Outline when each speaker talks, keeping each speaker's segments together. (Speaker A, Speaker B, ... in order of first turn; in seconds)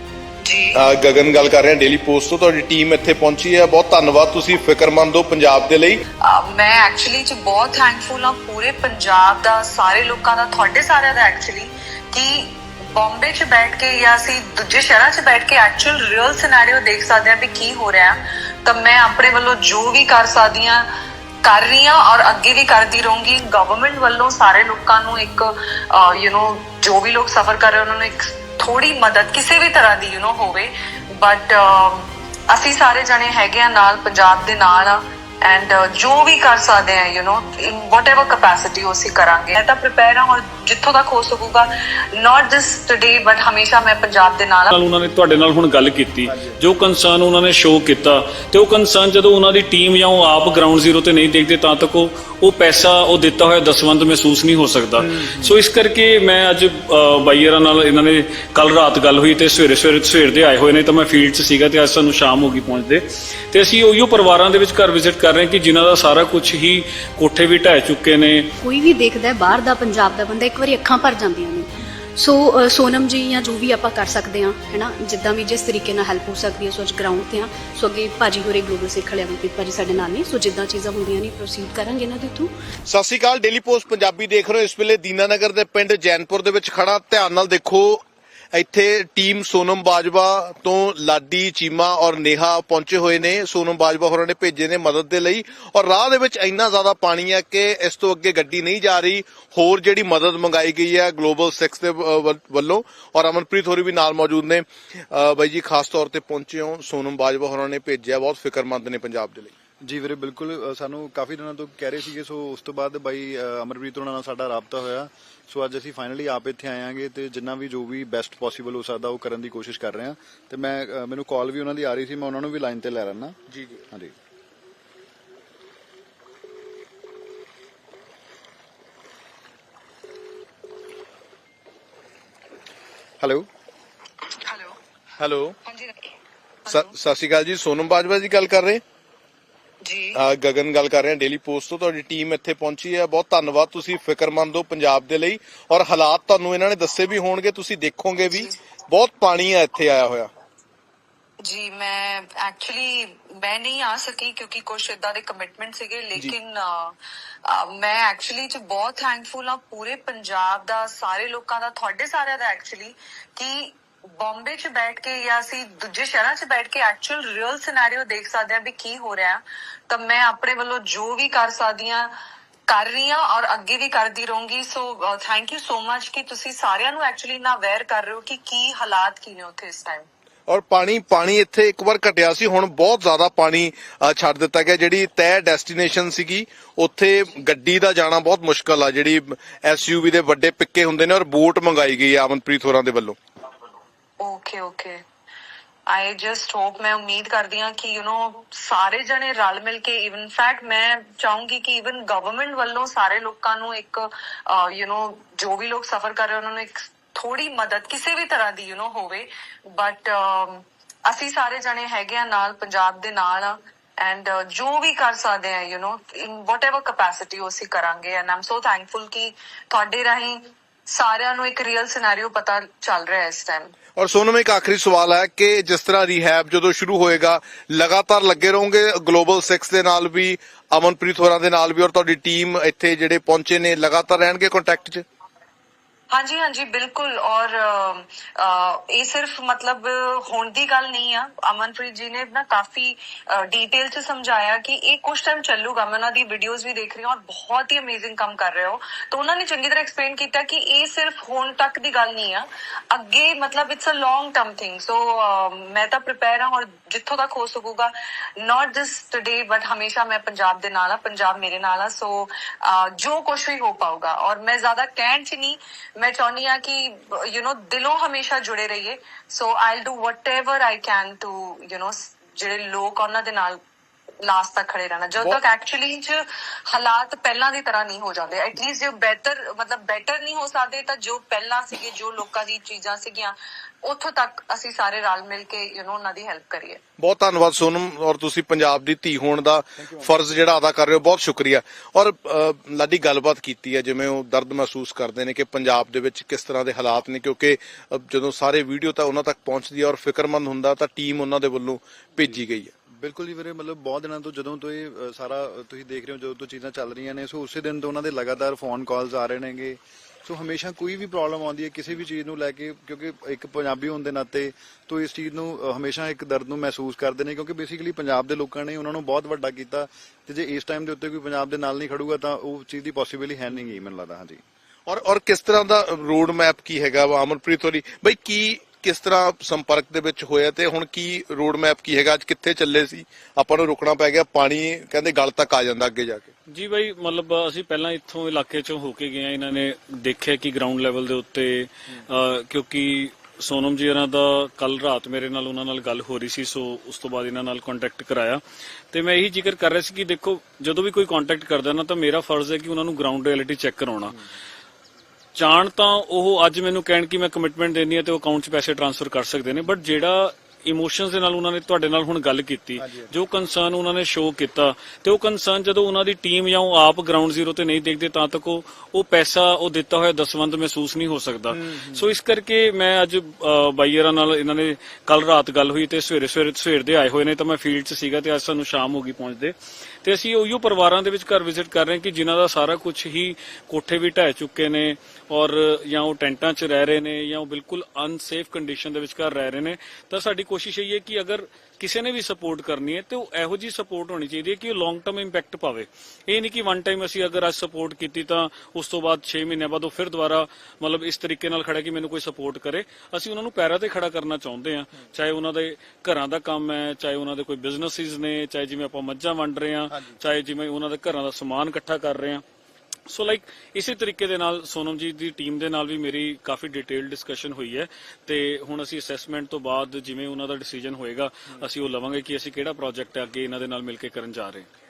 Speaker A: 0.4-0.8, 6.2-20.9, 21.4-44.7, 134.3-134.8, 135.6-136.1, 136.7-136.9, 139.8-140.2, 151.4-172.1, 172.7-180.1, 194.2-195.0, 195.9-223.7, 236.1-273.6, 274.2-286.8
Speaker B: 0.7-6.0, 82.9-109.5, 123.5-123.8, 135.2-135.6, 136.7-138.8, 140.1-150.3, 180.5-193.2, 224.0-235.0, 287.0-302.7, 324.9-336.3
Speaker C: 44.7-68.5, 336.5-354.2, 355.3-412.4, 413.1-424.7
Speaker D: 46.3-46.6, 55.0-55.6, 109.8-123.4, 133.2-133.5, 302.9-324.4, 371.6-372.1
Speaker E: 68.6-82.5